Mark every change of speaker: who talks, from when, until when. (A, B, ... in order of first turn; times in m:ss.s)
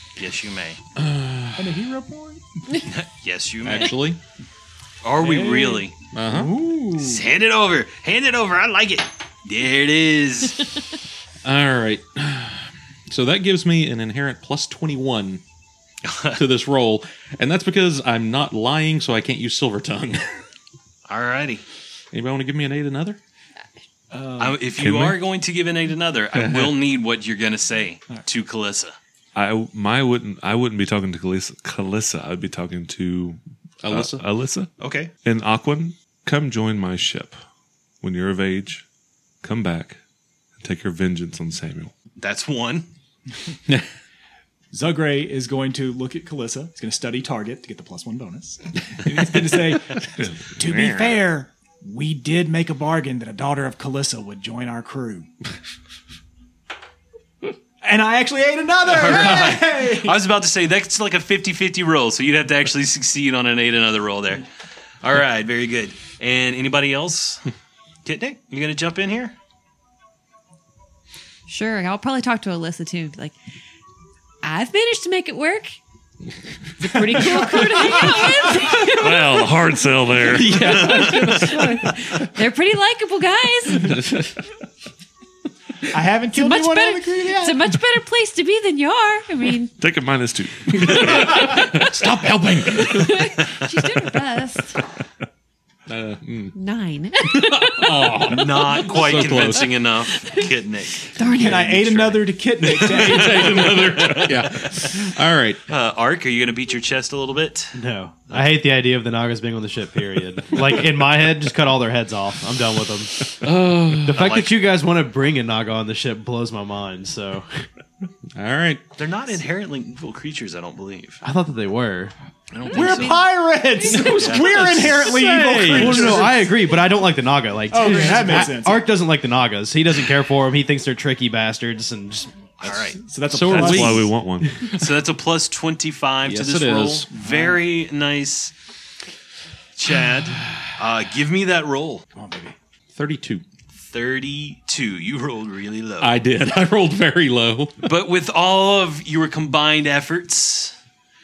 0:00.2-0:00.8 A
0:01.0-0:01.7 B
0:01.6-0:02.7 C
0:02.8-0:04.0 A
0:03.6-0:04.2 B
0:05.0-0:06.0 A
0:05.2-0:07.2 C
0:06.1-0:06.7 B
0:07.0-0:10.7 A
0:11.4-0:15.4 B
0:16.0-0:16.4 A
0:16.4-0:20.4 B
0:21.1-0:21.6 A
0:22.1-0:23.2 B
0:24.1-0:24.6 C
0:24.4-0:29.0 A
0:24.8-0:25.2 B
0:26.4-0:26.7 B
0:29.4-0:34.7 D
0:33.8-0:34.2 B
0:34.8-0:35.1 A
0:35.2-0:37.4 D
0:38.0-0:38.9 D
0:39.4-0:40.0 D
0:40.6-0:41.9 D
0:42.2-0:42.9 A
0:44.7-0:55.3 C
0:50.1-0:51.2 D
0:57.8-1:00.2 C
0:58.8-1:04.5 A
1:05.0-1:07.5 A
1:08.0-1:09.4 A
1:11.5-1:13.4 E
1:14.4-1:15.8 E
1:16.8-1:19.7 E
1:17.3-1:18.6 C
1:18.7-1:20.6 D
1:20.3-1:21.8 C
1:20.4-1:22.3 B
1:20.6-1:24.0 E
1:20.7-1:21.0 A
1:23.7-1:24.4 B
1:25.9-1:27.7 C
1:26.3-1:29.7 E
1:29.8-1:31.4 D
1:30.7-1:33.3 B
1:30.9-1:33.2 C
1:32.8-1:34.8 E
1:35.9-1:36.6 B
1:36.6-1:38.2 E
1:37.2-1:39.8 B
1:38.3-1:42.3 A
1:41.2-1:41.8 E
1:41.3-1:44.3 C
1:42.6-1:45.6 B
1:43.0-1:43.3 D
1:43.4-1:44.1 A
1:45.7-1:47.8 A
1:47.8-1:53.5 F
1:53.3-1:54.3 B
1:54.0-1:57.7 F
1:54.1-1:54.6 A
1:58.4-1:58.8 B
1:59.0-2:01.2 A
2:01.2-2:02.1 F
2:02.5-2:03.2 A
2:02.7-2:06.4 C
2:02.7-2:03.3 E
2:03.9-2:06.3 B
2:04.0-2:04.9 A
2:05.5-2:12.3 F
2:07.7-2:08.9 C
2:12.6-2:13.0 A
2:12.7-2:14.1 C
2:13.3-2:14.1 B
2:13.3-2:14.6 D
2:14.7-2:18.5 A
2:16.2-2:17.4 B
2:19.8-2:22.1 A
2:22.1-2:22.6 C
2:22.9-2:23.4 B
2:23.9-2:26.1 A
2:26.0-2:27.8 B
2:27.8-2:30.8 A